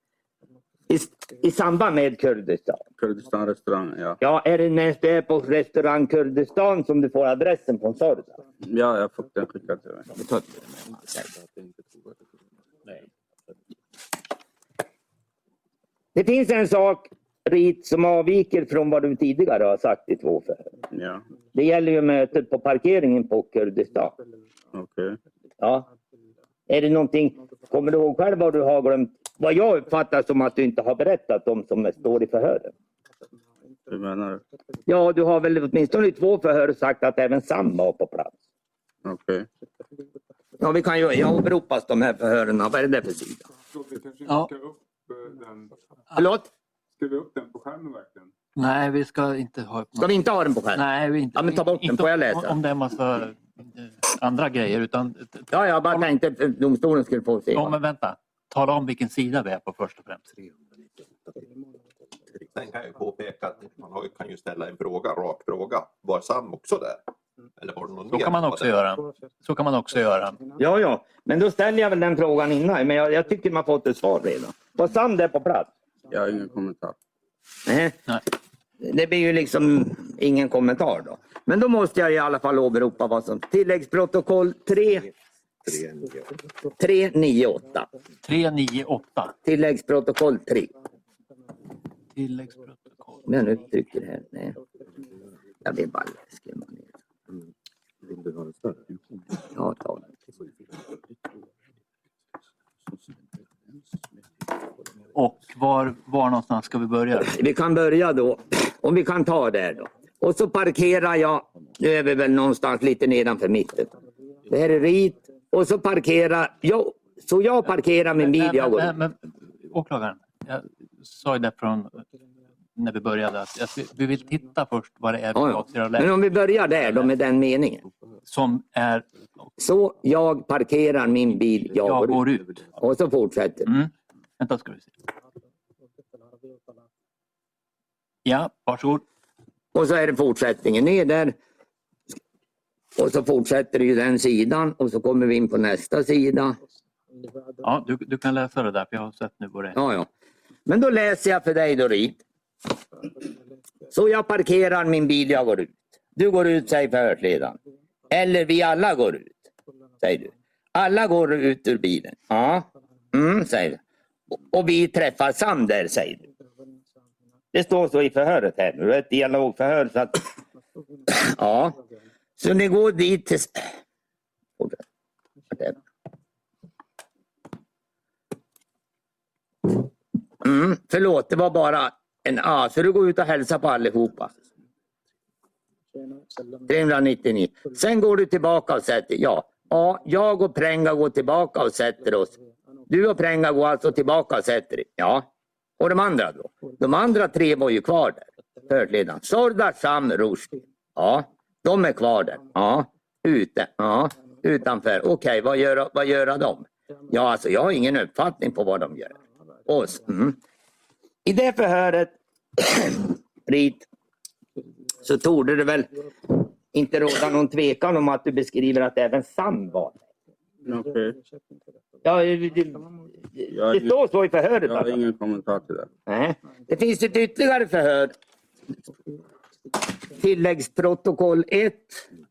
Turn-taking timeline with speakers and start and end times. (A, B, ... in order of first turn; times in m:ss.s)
0:00.9-0:02.8 A
0:03.0-0:04.2 B
0:04.2-0:08.3 A
0:08.6-0:10.1 B
0:10.1-0:11.3 A
0:16.1-0:20.7 A
0:20.9-0:21.2 B
0:21.5-0:24.1 A
0:24.7-0:25.2 B
0:25.6-0:25.9 A
0:26.7-0:32.7 A
0:33.9-0:34.4 B
0:34.9-0:38.4 A
0:39.0-0:39.5 B
0:40.6-0:43.4 A
0:43.7-0:45.7 C
0:46.1-0:46.5 A
0:47.0-0:48.3 C
0:48.6-0:56.0 D
0:50.0-0:52.6 A
0:55.5-0:57.8 A
0:57.5-1:00.3 D
1:02.4-1:07.0 E
1:07.6-1:08.7 E
1:08.1-1:10.4 D
1:10.6-1:15.7 A
1:16.1-1:17.0 B
1:17.6-1:18.0 A
1:18.8-1:25.1 A
1:26.8-1:27.9 A
1:28.2-1:29.3 D
1:29.4-1:30.7 A
1:32.1-1:33.2 D
1:33.2-1:34.6 A
1:35.6-1:36.9 A
1:39.4-1:40.0 A
1:45.1-1:47.3 D
1:47.2-1:53.9 A
1:54.5-1:58.9 A
1:58.2-2:02.0 D
2:02.7-2:06.2 D
2:05.3-2:07.8 A
2:06.7-2:07.1 D
2:08.2-2:09.1 D
2:09.6-2:12.2 A
2:11.8-2:12.7 D
2:12.8-2:13.7 A
2:13.6-2:14.9 D
2:18.2-2:19.0 D
2:19.7-2:21.4 A
2:23.0-2:26.6 A
2:27.6-2:29.8 D
2:29.7-2:30.1 A
2:30.7-2:32.2 A
2:33.9-2:37.6 A
2:38.1-2:39.4 A
2:40.0-2:43.8 A
2:44.4-2:46.2 A
2:47.5-2:50.2 A
2:51.1-2:51.8 A
2:52.4-2:53.7 A
2:55.5-2:55.8 A
3:00.4-3:04.3 A
3:06.7-3:12.3 A
3:12.9-3:15.3 A
3:15.8-3:29.2 A
3:29.7-3:30.4 A
3:31.2-3:33.8 A
3:35.0-3:40.0 A
3:40.6-3:41.2 B
3:42.0-3:44.9 A
3:43.5-3:44.0 B
3:44.6-3:45.9 B
3:46.1-3:48.1 A
3:50.1-3:52.0 A